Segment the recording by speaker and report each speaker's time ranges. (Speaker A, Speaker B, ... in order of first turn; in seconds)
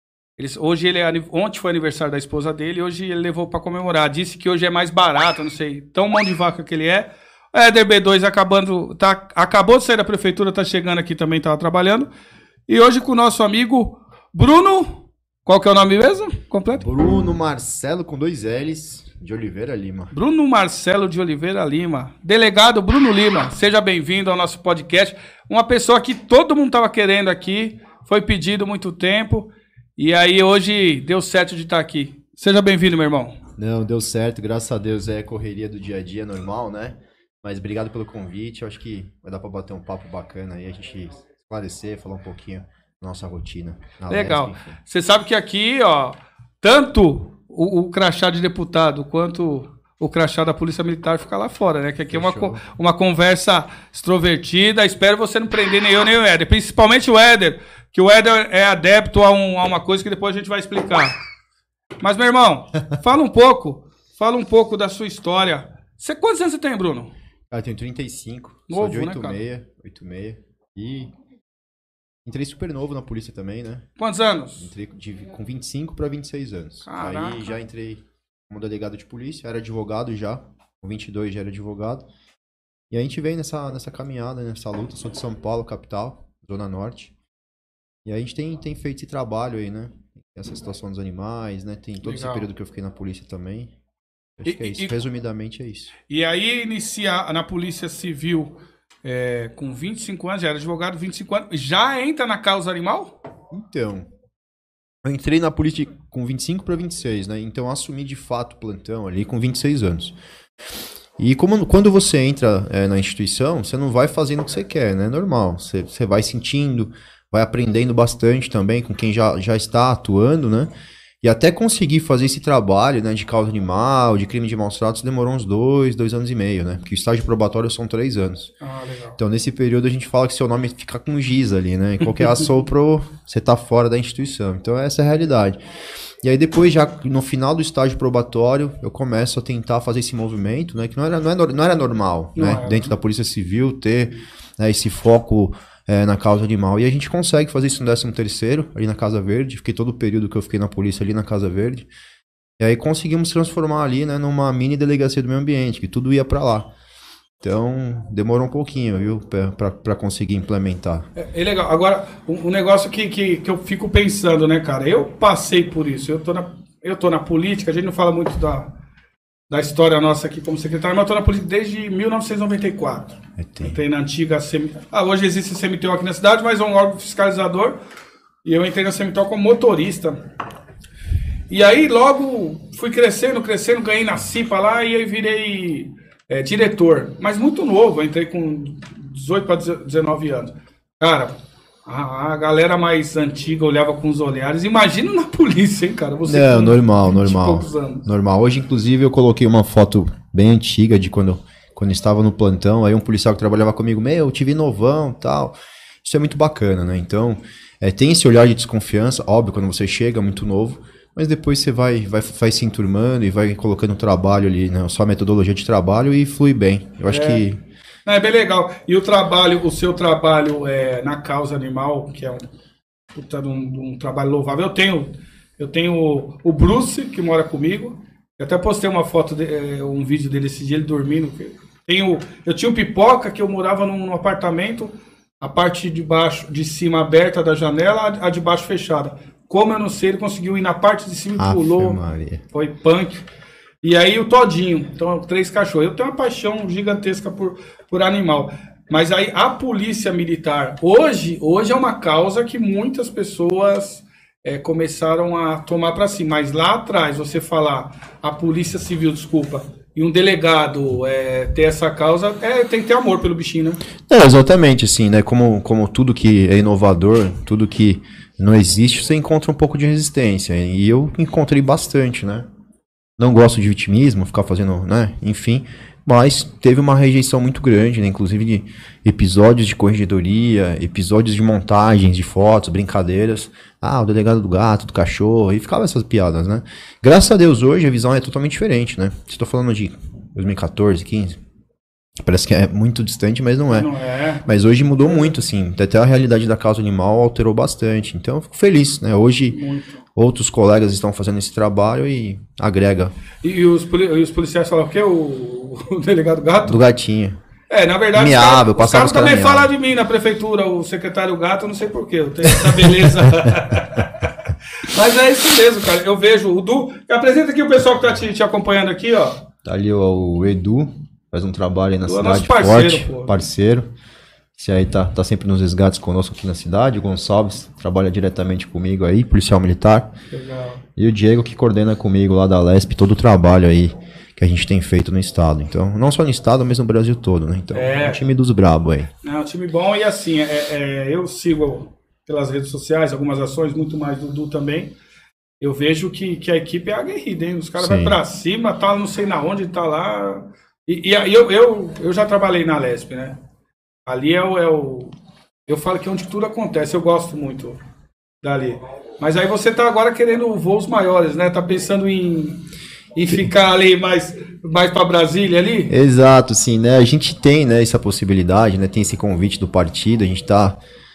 Speaker A: 0.4-12.1, 12.7-16.8, 20.1-33.4, 44.1-61.1, 62.0-67.1, 68.7-69.4, 74.0-74.7, 76.8-77.5, 92.0-92.5, 94.5-95.0, 96.1-103.2, 128.6-129.2, 142.3-142.9, 161.2-168.7, 169.5-177.8, 178.4-180.2, 181.5-198.0, 217.1-217.4, 218.1-222.5, 223.1-242.0, 242.5-243.2, 243.8-263.8, 293.7-294.4, 299.5-300.0, 303.4-306.8, 307.7-314.3, 314.9-319.4, 322.0-323.3, 330.3-330.8, 337.7-338.2, 339.2-344.9, 345.6-353.4, 354.1-355.1, 355.7-357.8, 358.4-362.6, 363.1-365.9
Speaker B: 16.8-20.1, 33.6-44.7, 52.1-52.6, 67.5-71.1, 72.2-73.8, 74.6-82.0, 82.9-87.1, 88.0-93.7, 94.4-95.9, 103.5-104.1, 105.0-110.2, 111.2-120.7, 121.2-128.5, 129.2-135.6, 136.2-151.9, 152.6-156.7, 157.4-161.1, 173.4-173.8, 196.2-217.6, 241.3-242.4, 264.1-272.5, 273.2-291.4, 292.2-293.9, 294.4-299.6, 300.1-303.1, 306.7-307.4, 308.1-309.7, 319.6-323.9, 324.6-330.1, 330.9-339.1, 347.8-348.2, 365.9-370.8